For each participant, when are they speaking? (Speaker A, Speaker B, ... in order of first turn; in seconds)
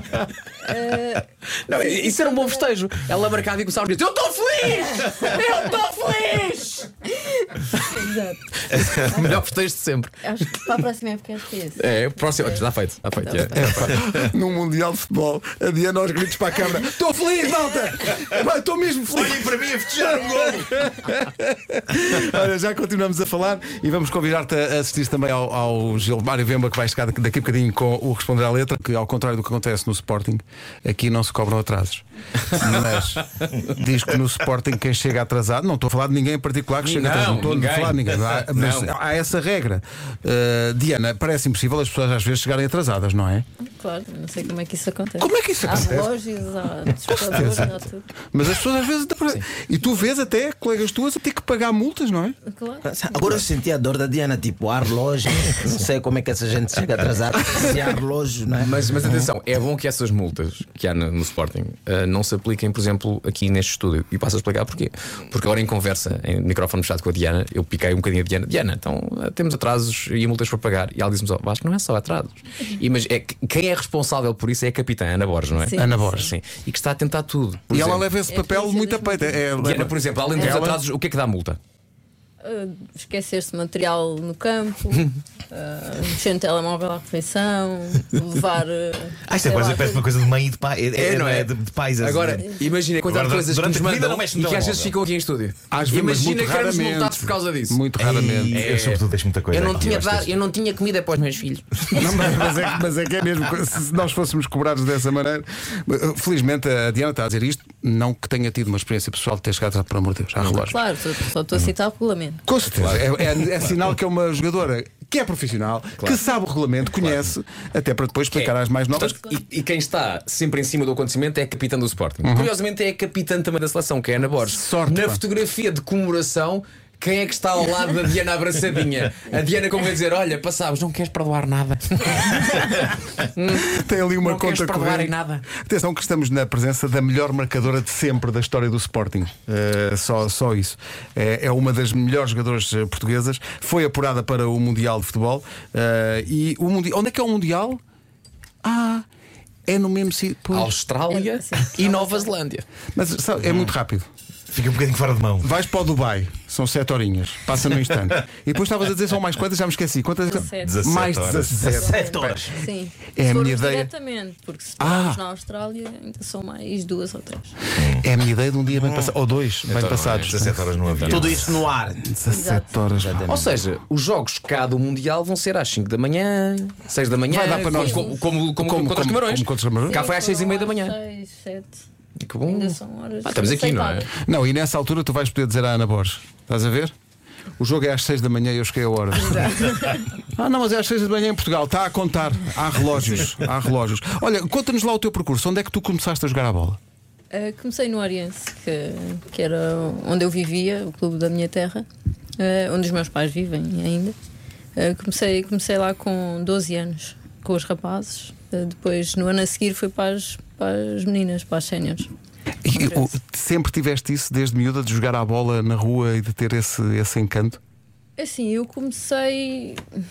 Speaker A: 0.5-2.7, 7.0-9.2, 10.2-12.6, 13.2-13.6, 43.6-48.1, 52.4-53.4, 75.6-76.1, 78.3-79.4, 82.4-90.1, 110.6-112.4, 151.1-152.3, 160.3-160.8, 161.7-167.6, 172.2-172.8, 177.5-178.2, 179.8-181.8, 182.5-184.1, 189.1-190.1, 197.3-201.8, 202.4-204.1, 204.8-212.1, 218.2-219.8
Speaker B: 1.6-6.9, 8.7-10.7, 11.8-14.0, 36.8-39.0, 58.6-78.1, 79.6-81.6, 91.0-97.8, 98.5-102.1, 112.7-113.1, 118.3-135.4, 150.5-152.7, 169.7-171.4, 173.2-180.9, 182.2-184.1
Speaker C: 13.5-43.4, 45.2-46.1, 47.3-47.8, 48.3-52.4, 75.8-76.3, 77.7-80.8, 95.7-98.6, 101.9-110.8, 112.5-119.2, 122.2-122.5, 124.5-125.2, 133.5-147.8, 148.6-149.1, 149.7-150.7, 152.9-154.1, 155.4-162.4, 163.1-163.9, 164.8-165.2, 168.0-170.6, 172.0-173.3, 177.3-180.0, 184.2-186.9, 187.6-189.5, 190.2-196.8, 212.6-217.6
Speaker D: 19.1-20.7, 89.2-92.5, 93.0-94.9, 98.0-100.3, 154.5-155.5, 160.6-161.6, 167.8-168.0, 170.3-171.6
Speaker E: 52.8-58.9, 161.6-162.6, 171.0-172.2, 173.0-173.5